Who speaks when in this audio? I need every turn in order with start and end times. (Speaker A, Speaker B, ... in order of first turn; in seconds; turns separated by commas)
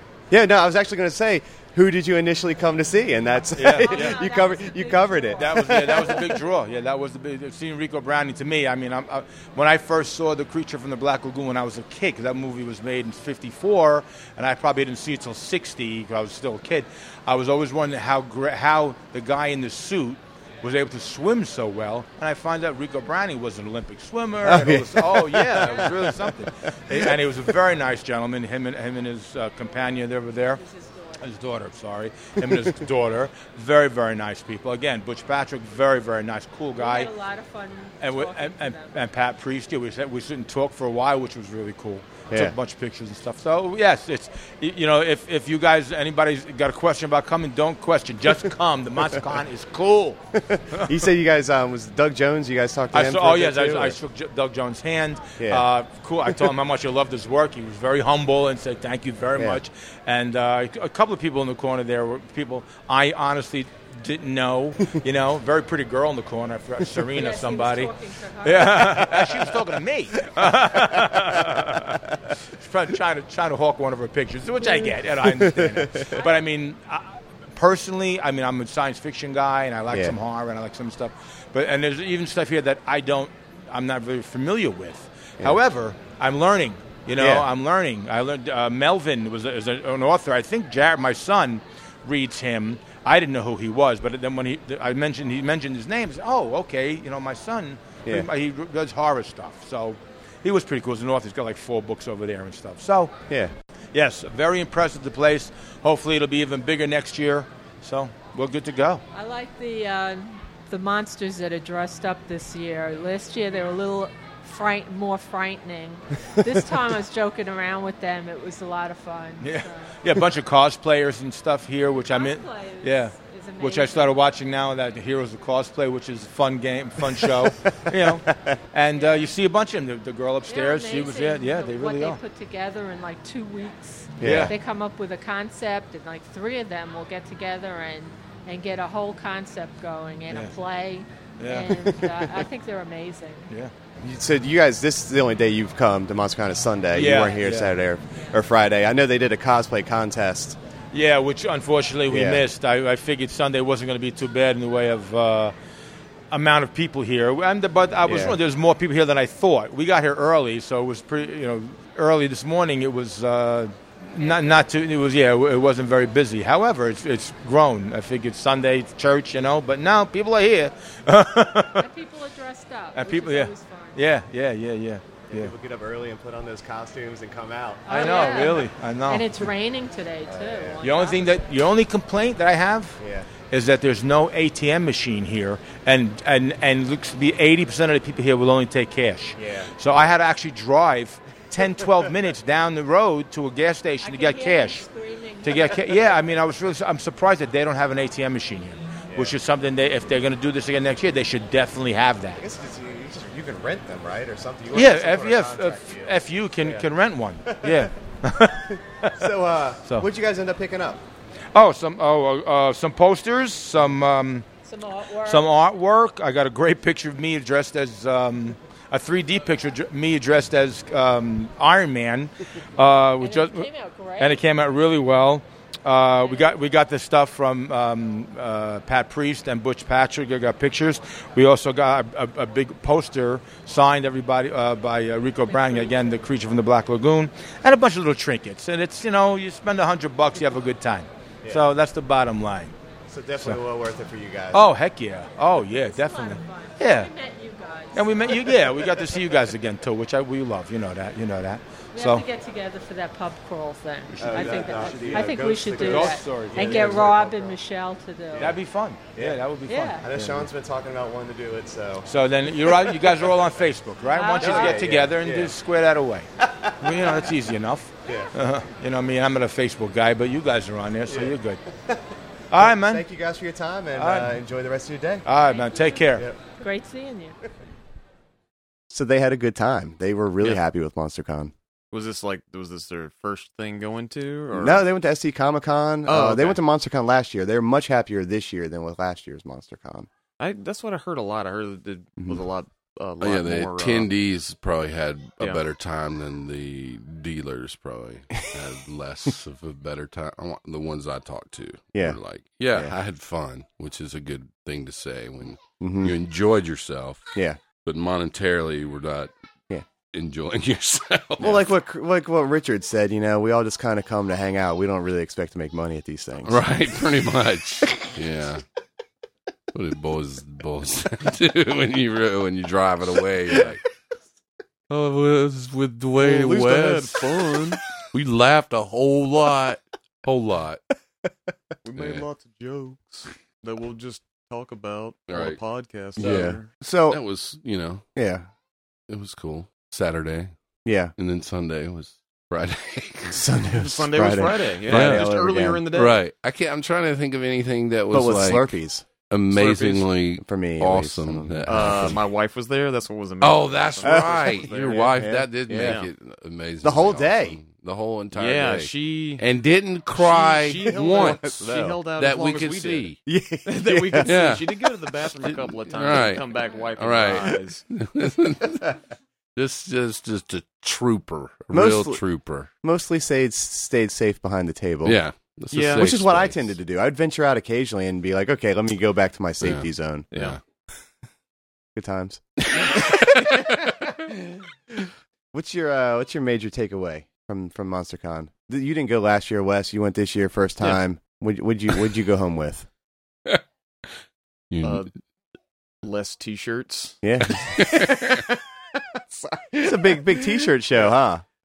Speaker A: 0.3-6.3, Speaker B: 3.5-4.2, Speaker C: 3.6-6.2, Speaker B: 5.4-30.6, Speaker A: 24.4-27.1, Speaker C: 25.6-26.1, Speaker C: 29.7-31.3, Speaker B: 31.2-37.1, Speaker C: 36.7-39.0, Speaker B: 38.0-50.2, Speaker A: 42.3-42.5, Speaker A: 50.4-54.0, Speaker B: 50.7-51.0, Speaker B: 52.9-103.1, Speaker A: 55.4-55.7, Speaker A: 59.4-59.6, Speaker C: 67.1-69.5, Speaker A: 70.9-71.2, Speaker C: 74.6-74.9, Speaker A: 75.2-76.1, Speaker C: 76.1-76.4, Speaker A: 79.9-80.2, Speaker A: 87.2-87.5, Speaker B: 103.9-109.0, Speaker C: 109.1-120.1, Speaker B: 119.4-132.2, Speaker C: 121.9-124.4, Speaker A: 127.5-128.6, Speaker C: 128.9-129.3, Speaker C: 130.4-143.5, Speaker A: 134.2-134.5, Speaker B: 134.2-134.5, Speaker B: 141.4-141.9, Speaker A: 144.0-150.6, Speaker B: 146.9-147.7, Speaker B: 150.9-155.5, Speaker A: 152.1-152.4, Speaker B: 156.3-171.8, Speaker A: 158.0-158.4, Speaker C: 164.2-164.6, Speaker C: 171.8-174.0, Speaker B: 172.9-175.5, Speaker A: 175.3-178.2, Speaker C: 177.8-181.4, Speaker B: 177.9-179.5, Speaker A: 180.3-180.8, Speaker B: 180.8-194.8, Speaker A: 183.0-183.3, Speaker A: 189.3-189.7, Speaker C: 194.0-196.2, Speaker B: 195.4-202.4, Speaker A: 199.1-199.3, Speaker A: 202.4-206.9, Speaker B: 204.7-209.2, Speaker A: 207.4-207.9, Speaker A: 209.1-211.0, Speaker B: 211.5-214.5, Speaker C: 214.6-215.5, Speaker B: 215.2-223.7, Speaker C: 223.2-224.4, Speaker B: 224.2-242.7, Speaker C: 226.2-226.6, Speaker C: 235.5-236.2, Speaker A: 243.1-244.7, Speaker B: 244.5-247.1, Speaker C: 245.6-248.9, Speaker B: 247.9-252.2, Speaker C: 251.9-258.6, Speaker A: 254.2-257.5, Speaker B: 254.2-257.2, Speaker B: 258.4-260.5, Speaker A: 259.1-259.4, Speaker C: 259.6-260.1, Speaker A: 260.0-262.1, Speaker B: 262.0-266.3, Speaker A: 262.9-263.2, Speaker C: 264.1-264.9, Speaker A: 264.4-265.5, Speaker A: 266.5-266.7, Speaker B: 266.8-271.6, Speaker A: 271.1-272.0, Speaker B: 272.5-273.1, Speaker A: 272.6-275.2, Speaker B: 273.9-274.4, Speaker B: 275.2-276.2, Speaker C: 275.4-277.4, Speaker A: 278.9-281.5, Speaker D: 281.9-284.9, Speaker A: 284.5-290.1, Speaker D: 286.1-286.6, Speaker D: 290.4-294.1, Speaker E: 293.2-309.3, Speaker A: 305.8-306.1, Speaker E: 310.1-311.6, Speaker A: 311.4-316.6, Speaker E: 316.4-318.6, Speaker E: 319.7-323.8, Speaker E: 324.9-327.3, Speaker D: 326.2-327.8, Speaker E: 328.1-330.8, Speaker D: 331.8-336.7, Speaker E: 331.9-332.2, Speaker E: 335.3-335.6, Speaker E: 336.2-336.6, Speaker A: 336.2-337.2, Speaker E: 337.1-338.1, Speaker A: 338.1-338.4, Speaker E: 339.1-340.5, Speaker A: 340.8-341.1, Speaker E: 341.2-343.4, Speaker A: 343.3-345.8, Speaker D: 343.7-346.2, Speaker E: 344.9-345.3, Speaker E: 345.9-348.7, Speaker A: 348.1-349.0, Speaker E: 349.3-352.2, Speaker D: 349.5-350.1, Speaker A: 350.4-352.2, Speaker D: 351.7-355.1, Speaker E: 353.4-361.6, Speaker A: 354.0-356.0, Speaker D: 355.7-356.1, Speaker A: 356.8-357.6, Speaker D: 358.3-359.4, Speaker D: 360.1-363.1, Speaker A: 360.9-362.0, Speaker E: 362.1-363.2, Speaker A: 363.2-364.5, Speaker D: 363.6-367.8, Speaker E: 364.2-364.8, Speaker E: 365.4-368.9, Speaker E: 369.6-372.7, Speaker A: 371.7-372.2, Speaker A: 372.8-375.2, Speaker E: 375.0-376.8, Speaker D: 375.7-376.1, Speaker A: 375.9-380.3, Speaker E: 379.6-380.6, Speaker D: 380.3-380.6, Speaker A: 381.9-384.3, Speaker E: 382.9-383.1, Speaker A: 385.5-392.9, Speaker E: 394.7-395.1, Speaker D: 394.8-395.1, Speaker D: 396.0-397.2, Speaker A: 397.2-398.3, Speaker E: 397.7-398.4, Speaker A: 399.8-401.4